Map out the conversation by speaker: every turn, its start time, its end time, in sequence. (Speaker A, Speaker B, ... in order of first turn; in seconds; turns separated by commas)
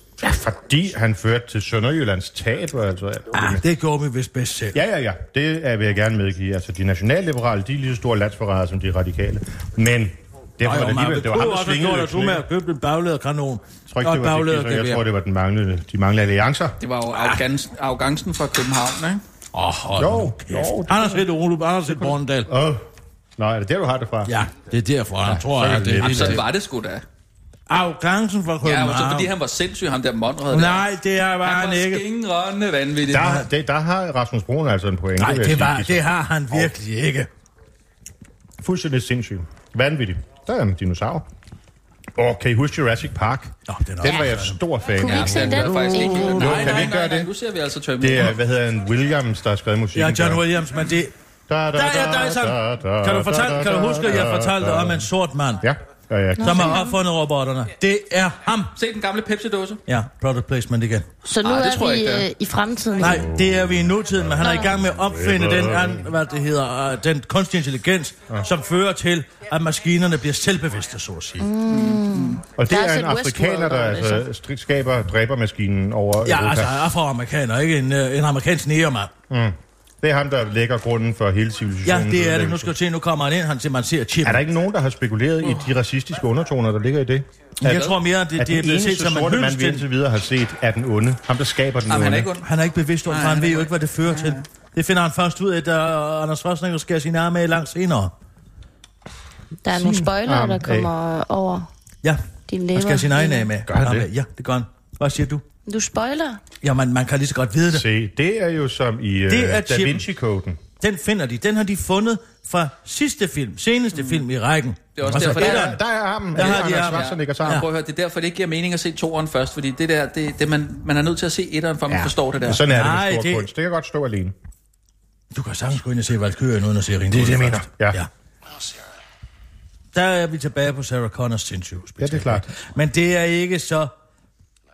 Speaker A: 0.2-3.6, Speaker B: 3.3-4.8, Speaker A: 4.7-12.4, Speaker B: 10.6-15.0, Speaker A: 13.9-16.8, Speaker C: 16.8-19.2, Speaker B: 17.1-17.4, Speaker B: 19.5-22.5, Speaker A: 20.0-21.2, Speaker A: 22.5-24.3, Speaker B: 24.3-26.4, Speaker A: 25.2-26.4, Speaker C: 26.0-27.0, Speaker B: 27.7-29.3, Speaker C: 28.6-30.9, Speaker B: 30.5-32.0, Speaker C: 31.4-33.5, Speaker A: 33.1-36.7, Speaker B: 35.2-37.3, Speaker A: 38.6-41.3, Speaker A: 42.1-47.3, Speaker B: 43.7-44.6, Speaker D: 44.9-46.6, Speaker C: 45.0-48.4, Speaker B: 45.9-46.9, Speaker A: 48.0-50.5, Speaker B: 49.9-51.1, Speaker A: 51.5-55.1, Speaker B: 51.7-55.6, Speaker A: 55.6-56.8, Speaker D: 56.4-57.0, Speaker B: 56.4-58.7, Speaker C: 58.7-59.8, Speaker B: 59.9-61.1, Speaker D: 61.2-63.2, Speaker C: 61.4-62.3, Speaker B: 63.0-71.5, Speaker A: 63.0-66.1, Speaker D: 64.4-64.7, Speaker D: 71.4-74.2, Speaker C: 71.7-72.4, Speaker A: 72.5-76.8, Speaker B: 76.2-79.1, Speaker A: 79.3-82.7, Speaker B: 81.8-84.4, Speaker A: 84.2-87.3, Speaker B: 87.6-89.8, Speaker C: 87.6-88.0, Speaker A: 88.3-92.3, Speaker C: 91.9-92.5, Speaker B: 92.4-98.1, Speaker C: 93.1-94.4, Speaker D: 99.6-101.7, Speaker A: 99.7-100.9, Speaker D: 102.5-103.5, Speaker B: 102.7-105.4, Speaker A: 103.7-104.1, Speaker D: 105.7-106.4, Speaker B: 106.6-107.9, Speaker A: 107.7-110.6, Speaker B: 109.3-110.0, Speaker B: 110.8-115.8, Speaker C: 113.9-114.2, Speaker C: 115.0-115.8, Speaker A: 115.0-117.7, Speaker B: 116.3-117.7, Speaker C: 116.4-122.6, Speaker A: 121.9-124.3, Speaker B: 122.6-123.5, Speaker B: 125.3-128.1, Speaker A: 127.1-128.0, Speaker B: 129.9-133.9, Speaker A: 132.0-132.5